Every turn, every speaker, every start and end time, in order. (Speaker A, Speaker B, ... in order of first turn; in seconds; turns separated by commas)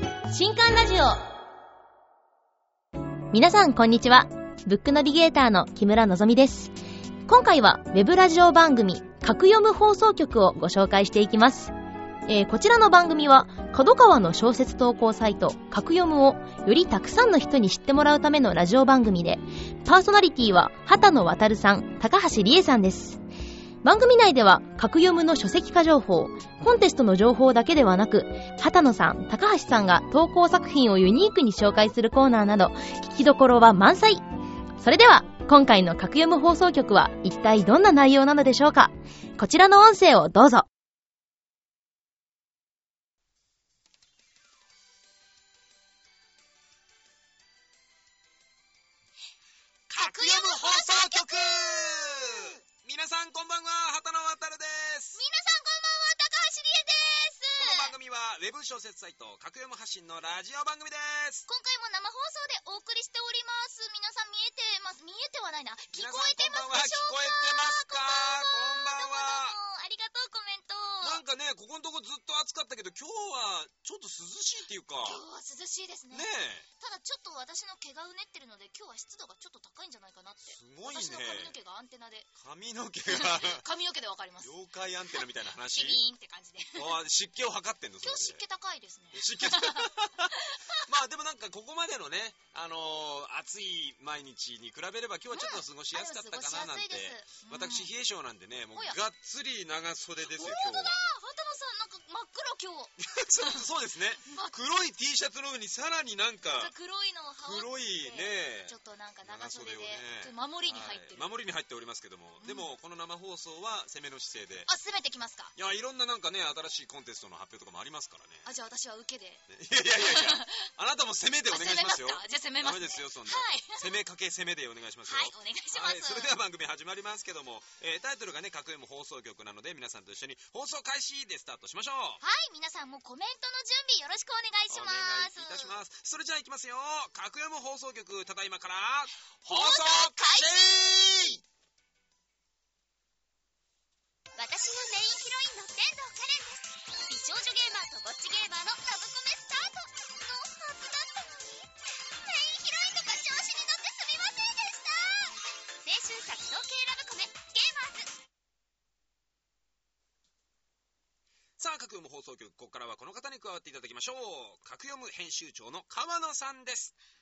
Speaker A: 0.3-1.3, Speaker A: 3.3-6.7, Speaker A: 7.3-11.7, Speaker A: 12.3-23.2, Speaker A: 23.8-34.2, Speaker A: 34.8-40.7, Speaker B: 49.9-52.6, Speaker C: 50.0-55.2, Speaker B: 55.1-57.9, Speaker C: 57.6-61.5, Speaker B: 61.5-71.2, Speaker C: 65.9-69.6, Speaker C: 71.0-75.2, Speaker B: 75.0-82.3, Speaker C: 76.1-76.7, Speaker C: 80.5-81.5, Speaker C: 82.3-83.6, Speaker B: 83.1-84.5, Speaker C: 84.4-86.0, Speaker B: 85.7-87.0, Speaker C: 86.7-88.4, Speaker B: 88.0-90.8, Speaker C: 89.1-101.0, Speaker B: 95.3-97.9, Speaker B: 98.7-99.0, Speaker B: 100.2-103.6, Speaker C: 103.0-106.7, Speaker B: 104.2-104.5, Speaker B: 106.5-111.3, Speaker C: 107.4-108.7, Speaker C: 109.2-114.7, Speaker B: 112.4-112.7, Speaker B: 114.7-115.5, Speaker C: 115.5-118.5, Speaker B: 118.4-120.7, Speaker C: 119.5-132.2, Speaker B: 121.5-123.9, Speaker B: 125.0-126.4, Speaker B: 132.2-135.8, Speaker C: 134.7-141.4, Speaker B: 139.5-140.8, Speaker B: 144.3-158.1, Speaker C: 161.6-166.9